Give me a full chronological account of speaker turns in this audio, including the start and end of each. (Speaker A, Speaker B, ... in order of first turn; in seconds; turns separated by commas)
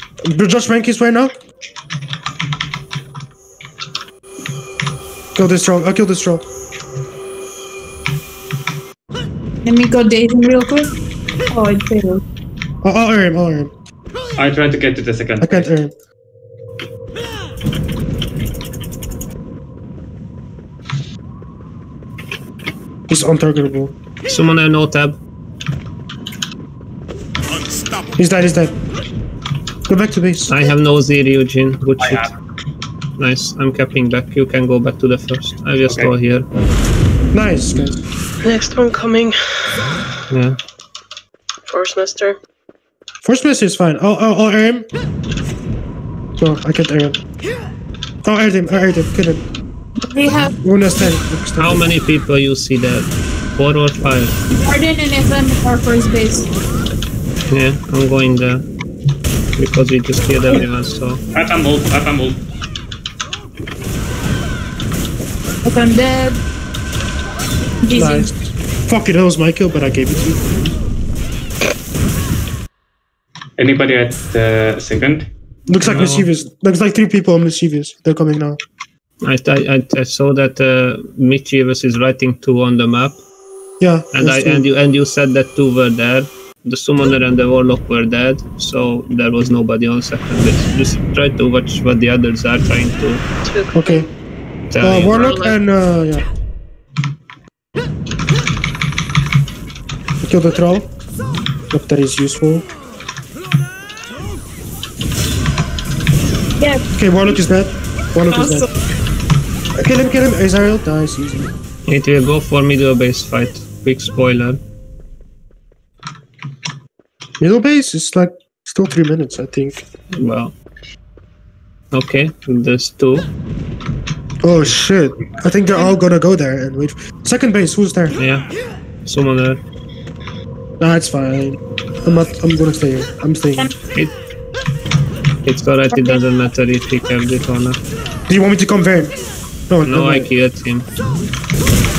Speaker A: 0.2-1.3, Speaker A: 5.3-6.4, Speaker B: 9.6-10.9, Speaker B: 11.5-12.2, Speaker A: 12.8-13.7, Speaker C: 14.4-15.7, Speaker A: 15.4-15.9, Speaker A: 23.1-23.9, Speaker D: 24.3-25.2, Speaker A: 28.2-28.8, Speaker A: 29.9-30.6, Speaker D: 30.5-32.3, Speaker C: 32.0-32.3, Speaker D: 33.2-36.5, Speaker C: 35.8-36.1, Speaker A: 37.3-38.0, Speaker E: 38.4-40.0, Speaker D: 40.3-40.6, Speaker E: 41.7-42.4, Speaker A: 43.2-44.9, Speaker A: 46.4-47.2, Speaker A: 48.2-49.4, Speaker B: 50.0-50.5, Speaker A: 50.6-51.9, Speaker D: 51.6-54.4, Speaker B: 54.6-56.5, Speaker D: 57.5-58.6, Speaker D: 59.6-61.2, Speaker C: 61.3-62.4, Speaker B: 65.6-66.4, Speaker B: 67.8-68.3, Speaker A: 67.9-70.5, Speaker C: 73.6-75.3, Speaker A: 75.7-78.6, Speaker D: 75.8-76.3, Speaker C: 75.9-76.2, Speaker D: 79.2-83.2, Speaker A: 83.8-84.7, Speaker D: 84.1-93.2, Speaker E: 93.4-94.1, Speaker A: 93.7-94.1, Speaker D: 94.7-95.3, Speaker A: 94.8-96.2, Speaker E: 94.8-95.6, Speaker A: 100.2-100.9, Speaker A: 101.7-102.7, Speaker B: 106.6-106.8, Speaker A: 107.0-108.7, Speaker B: 108.3-108.6, Speaker A: 109.8-111.5, Speaker D: 111.9-114.6, Speaker A: 117.4-119.8, Speaker D: 120.1-120.5, Speaker D: 121.9-123.3, Speaker A: 124.4-128.2, Speaker B: 125.7-126.0, Speaker D: 128.2-128.5, Speaker D: 129.1-129.6, Speaker A: 130.8-133.7, Speaker D: 135.4-137.8, Speaker B: 135.9-136.2, Speaker A: 138.3-139.1, Speaker A: 139.7-140.3, Speaker D: 139.8-140.9